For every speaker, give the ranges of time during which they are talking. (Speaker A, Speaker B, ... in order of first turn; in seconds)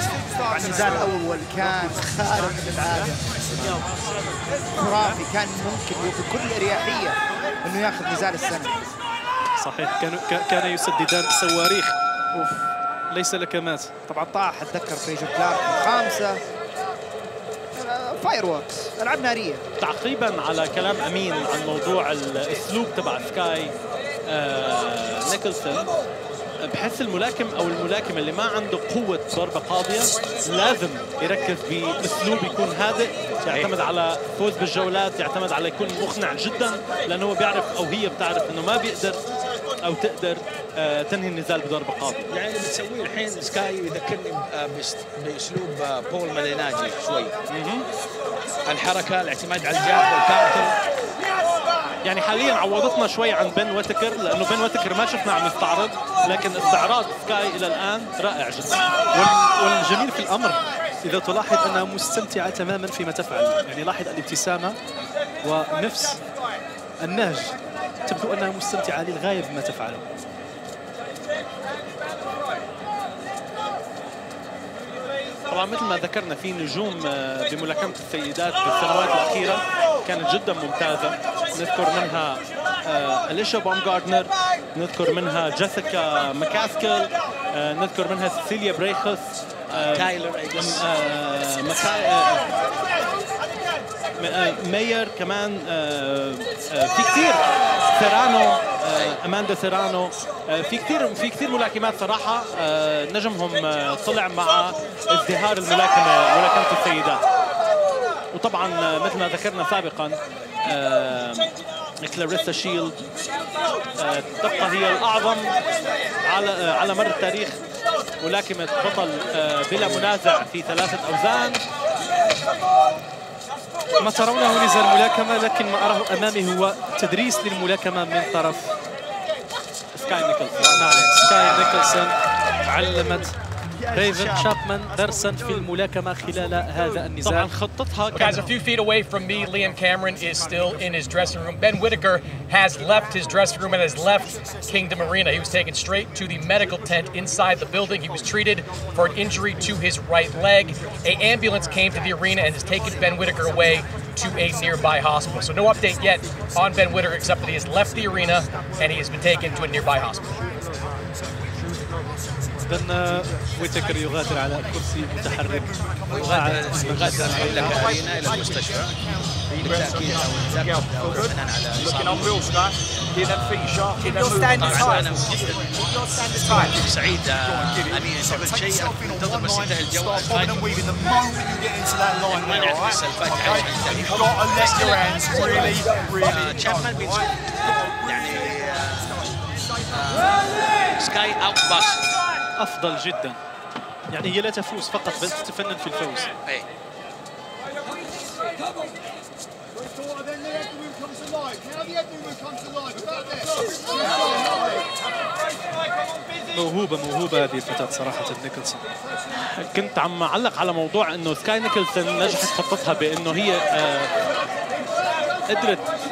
Speaker A: 0.5-3.2, 4.8-8.8, 14.1-16.4, 17.8-19.6
Speaker B: 9.6-14.1, 59.1-64.8, 65.4-66.2, 67.0-70.0, 124.0-128.7, 130.7-132.1, 132.7-133.3, 133.9-137.5, 162.7-167.9, 192.6-193.4, 194.1-196.3, 206.5-208.8
Speaker C: 19.8-23.7, 24.3-25.9, 26.6-39.2, 39.8-42.3, 47.5-47.9, 52.0-58.8, 75.5-92.5, 94.2-97.4, 98.0-107.2, 108.3-111.5, 112.0-113.0, 114.0-115.6, 116.2-117.6, 118.2-121.6, 129.9-131.1, 137.2-138.5, 209.4-214.1, 215.5-215.8
Speaker D: 33.4-33.7, 42.3-47.4, 48.6-50.8, 89.7-90.9, 98.9-99.2, 133.8-134.5, 166.1-168.9, 169.5-175.9, 176.4-181.2, 182.0-189.3, 189.9-192.1
Speaker E: 138.1-160.4